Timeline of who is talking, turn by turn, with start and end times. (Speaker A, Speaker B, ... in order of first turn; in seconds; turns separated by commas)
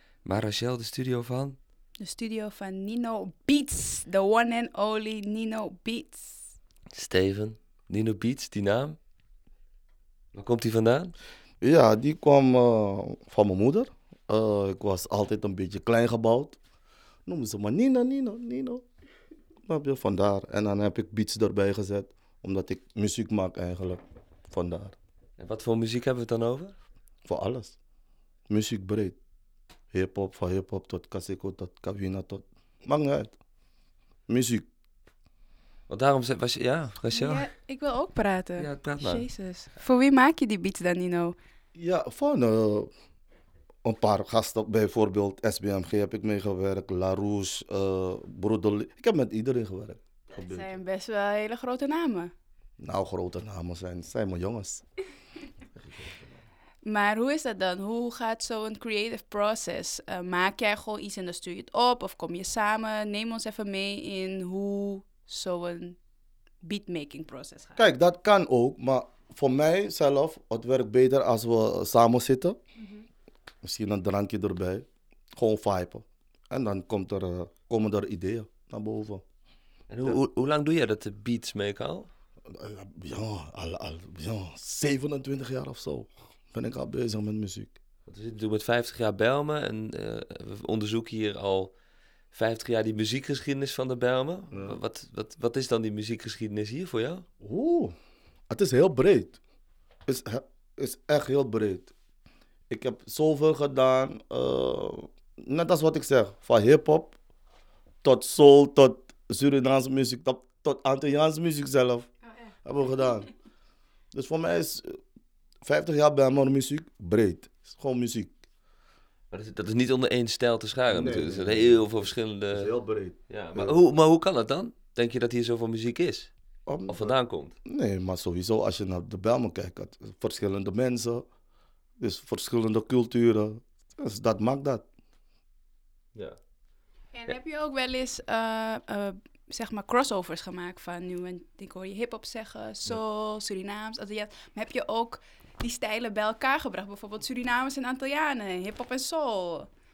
Speaker A: 0.2-1.6, Speaker B: 2.0-6.5, Speaker A: 6.9-9.0, Speaker A: 10.3-11.1, Speaker C: 11.6-16.6, Speaker C: 17.2-18.8, Speaker C: 19.6-24.9, Speaker A: 25.4-26.7, Speaker C: 27.2-27.8, Speaker C: 28.5-29.2, Speaker C: 29.9-33.4, Speaker C: 34.3-34.7, Speaker A: 35.9-37.5, Speaker B: 37.1-41.4, Speaker A: 38.6-39.3, Speaker C: 41.7-42.9, Speaker C: 43.8-50.8, Speaker B: 50.3-52.3, Speaker C: 52.8-54.8, Speaker C: 55.8-56.4, Speaker B: 56.9-66.0, Speaker B: 66.6-67.8, Speaker C: 67.8-72.6, Speaker B: 72.8-73.0, Speaker C: 73.6-79.2, Speaker A: 79.9-82.1, Speaker C: 82.5-87.7, Speaker A: 88.1-91.7, Speaker A: 92.3-97.2, Speaker C: 94.5-94.8, Speaker C: 97.4-97.9, Speaker C: 98.5-99.4, Speaker C: 100.0-101.9, Speaker C: 102.7-107.2, Speaker C: 108.0-112.1, Speaker B: 112.2-113.3, Speaker C: 112.6-113.3, Speaker C: 114.1-115.0, Speaker C: 115.6-118.3, Speaker A: 119.3-122.7, Speaker C: 120.9-123.8, Speaker A: 123.3-126.3, Speaker C: 126.7-131.2, Speaker A: 126.9-127.5, Speaker C: 132.0-134.8, Speaker B: 137.1-149.7